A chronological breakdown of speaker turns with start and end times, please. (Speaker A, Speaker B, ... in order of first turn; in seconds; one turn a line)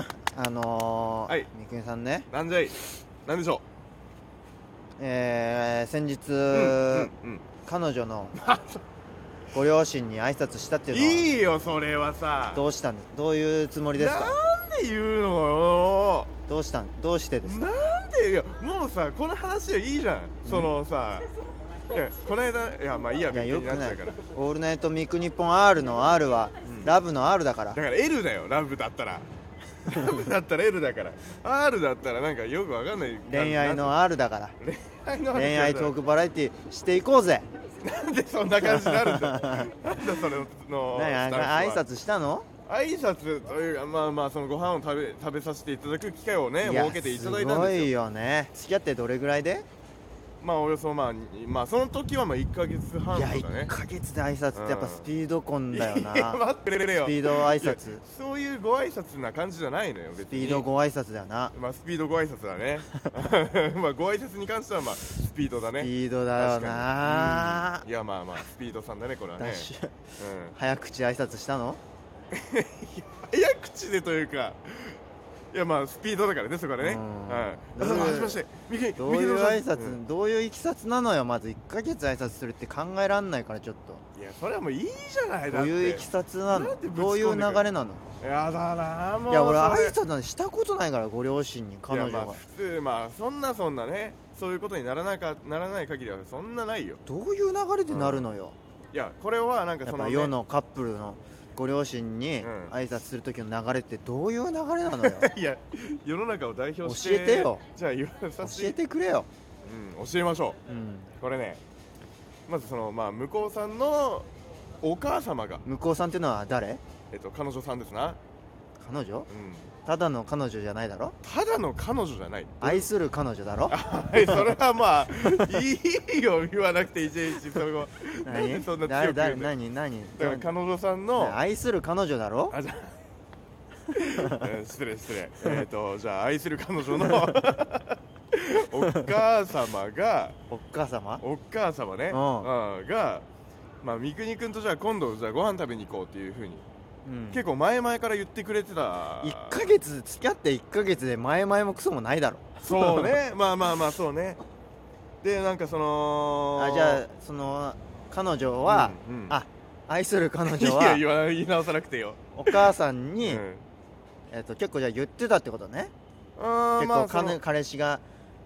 Speaker A: 0.2-2.3
Speaker B: 2.3-3.6
Speaker A: 5.0-7.1
Speaker B: 6.5-7.5
Speaker A: 7.7-8.4
Speaker B: 8.3-8.8
Speaker A: 9.5-11.3
Speaker B: 10.9-12.6
Speaker A: 12.5-14.4
Speaker B: 13.9-16.3
Speaker A: 16.5-17.6
Speaker B: 17.4-21.3
Speaker A: 20.4-20.7
Speaker B: 21.9-24.2
Speaker A: 23.3-27.8
Speaker B: 26.7-26.9
Speaker B: 27.7-29.3
Speaker B: 29.8-34.0
Speaker A: 33.3-34.6
Speaker B: 34.6-35.9
Speaker A: 35.4-37.5
Speaker B: 37.8-41.8
Speaker A: 38.6-39.7
Speaker A: 40.9-42.5
Speaker B: 42.7-47.9
Speaker A: 46.6-49.7
Speaker B: 50.4-53.7
Speaker A: 53.1-56.4
Speaker B: 54.5-55.1
Speaker B: 55.7-60.7
Speaker A: 57.0-58.0
Speaker A: 60.3-61.5
Speaker B: 61.5-70.5
Speaker A: 65.8-67.8
Speaker A: 69.4-71.8
Speaker B: 72.3-75.0
Speaker B: 75.5-80.0
Speaker A: 76.8-78.4
Speaker A: 79.0-84.0
Speaker B: 84.2-90.0
Speaker A: 85.5-88.0
Speaker A: 89.3-92.4
Speaker B: 91.9-97.0
Speaker A: 97.1-98.6
Speaker B: 97.9-98.2
Speaker B: 98.9-100.3
Speaker A: 99.8-105.3
Speaker B: 102.4-102.7
Speaker B: 105.0-108.8
Speaker A: 106.8-107.6
Speaker A: 108.4-109.3
Speaker B: 109.7-110.6
Speaker A: 110.7-111.1
Speaker B: 111.2-111.6
Speaker B: 112.5-114.3
Speaker B: 114.8-115.6
Speaker A: 115.7-116.8
Speaker B: 117.1-118.2
Speaker A: 118.8-119.3
Speaker B: 119.3-119.7
Speaker A: 119.8-121.2
Speaker B: 121.2-122.9
Speaker A: 122.6-124.5
Speaker B: 123.7-129.5
Speaker A: 128.2-130.5
Speaker B: 130.2-131.4
Speaker A: 131.2-132.6
Speaker B: 132.5-133.0
Speaker B: 133.9-140.4
Speaker A: 134.2-134.4
Speaker A: 140.5-141.2
Speaker B: 141.2-143.2
Speaker A: 142.1-142.5
Speaker B: 143.8-146.6
Speaker A: 147.1-147.4
Speaker B: 147.3-149.6
Speaker A: 149.2-153.2
Speaker B: 152.6-154.4
Speaker B: 155.2-157.0
Speaker A: 156.6-161.0
Speaker B: 158.7-159.4
Speaker B: 160.4-163.7
Speaker A: 162.3-163.4
Speaker A: 164.3-165.9
Speaker B: 166.4-167.4
Speaker A: 166.8-168.0